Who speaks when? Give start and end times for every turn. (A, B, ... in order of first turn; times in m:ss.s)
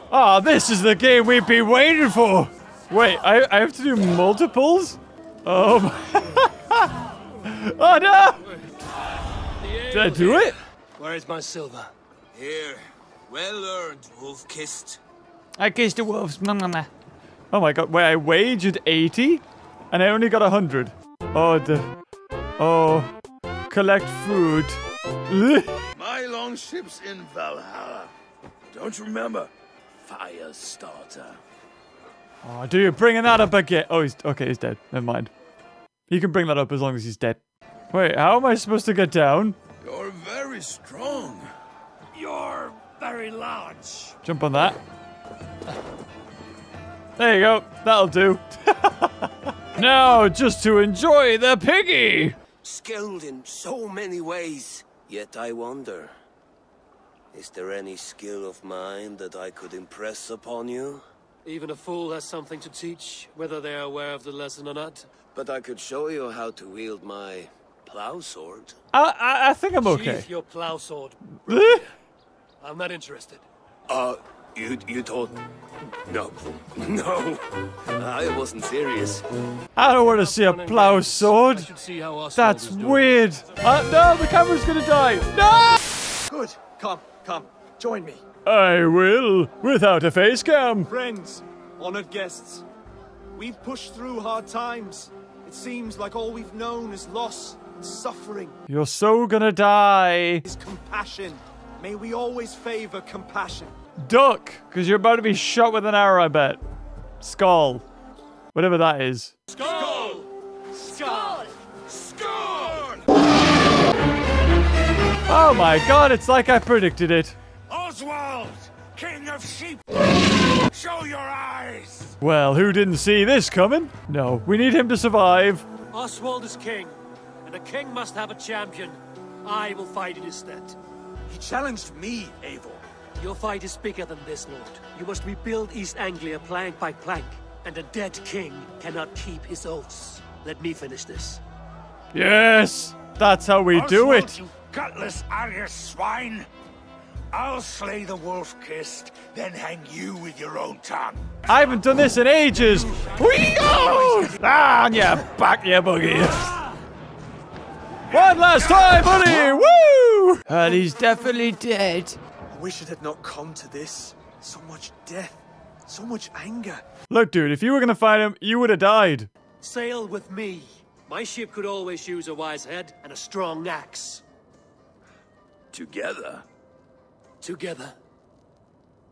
0:00.1-0:08.5 A
0:09.6-0:11.9 B
0:09.9-0:10.6 A
0:12.3-0:15.0 C
0:15.6-0:16.9 A
0:17.5-0:21.9 A
0:22.6-0:23.1 A
0:23.7-0:25.8 A
0:25.9-0:28.1 D
0:28.7-0:29.5 D
0:30.0-0:31.4 D
0:32.4-0:35.3 A
0:36.1-0:39.6 A
0:39.8-0:41.5 D
0:42.1-0:44.1 B
0:44.2-0:44.8 A
0:47.2-0:52.4 A
0:52.6-0:56.1 C
0:57.3-1:01.0 C
1:01.4-1:05.1 B
1:05.3-1:08.8 C
1:08.9-1:10.3 A
1:09.8-1:11.9 B
1:11.5-1:11.9 A
1:12.6-1:13.4 B
1:13.9-1:15.4 C
1:16.1-1:19.2 C
1:19.8-1:21.7 A
1:20.0-1:23.2 B
1:22.4-1:25.9 A
1:26.3-1:28.2 E
1:28.4-1:30.9 A
1:30.9-1:32.6 E
1:33.4-1:38.6 E
1:38.7-1:40.5 A
1:40.5-1:43.8 E
1:44.0-1:46.6 A
1:47.2-1:47.8 A
1:48.5-1:49.4 A
1:49.5-1:50.2 B
1:50.9-1:51.3 E
1:51.0-1:51.2 B
1:52.1-1:52.9 D
1:55.3-1:57.4 A
1:57.7-2:00.0 F
2:00.7-2:02.2 F
2:02.2-2:05.6 A
2:05.9-2:10.8 B
2:11.3-2:12.8 D
2:11.4-2:12.1 E
2:13.2-2:21.4 B
2:22.1-2:24.4 A
2:23.8-2:26.5 F
2:27.3-2:31.2 F
2:31.5-2:36.6 A
2:38.1-2:42.2 A
2:42.5-2:46.8 E
2:47.1-2:49.3 A
2:49.6-2:54.2 B
2:55.7-2:56.4 D
2:57.4-2:58.0 B